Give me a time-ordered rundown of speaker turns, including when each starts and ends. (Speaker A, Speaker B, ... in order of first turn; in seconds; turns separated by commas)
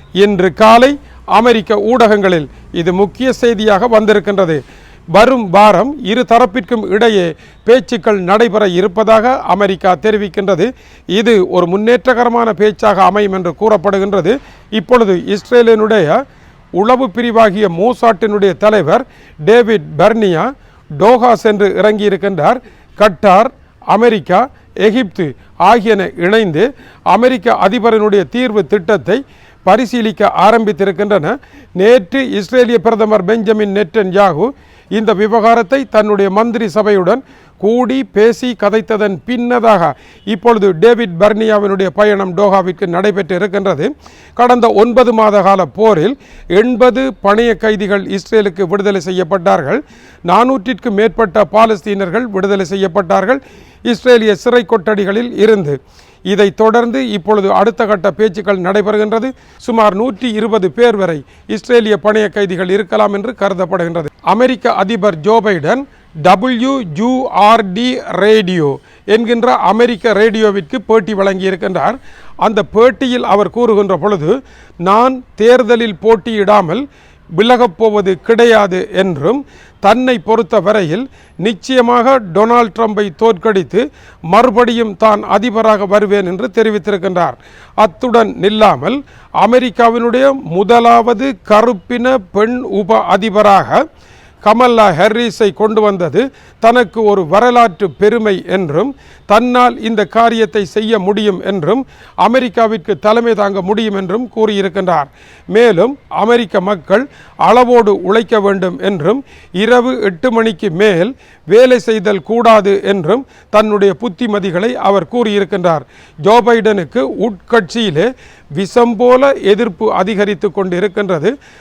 Speaker A: 0.2-4.6, Speaker A: 5.1-16.2, Speaker A: 16.8-76.8, Speaker A: 77.3-93.8, Speaker A: 94.4-121.3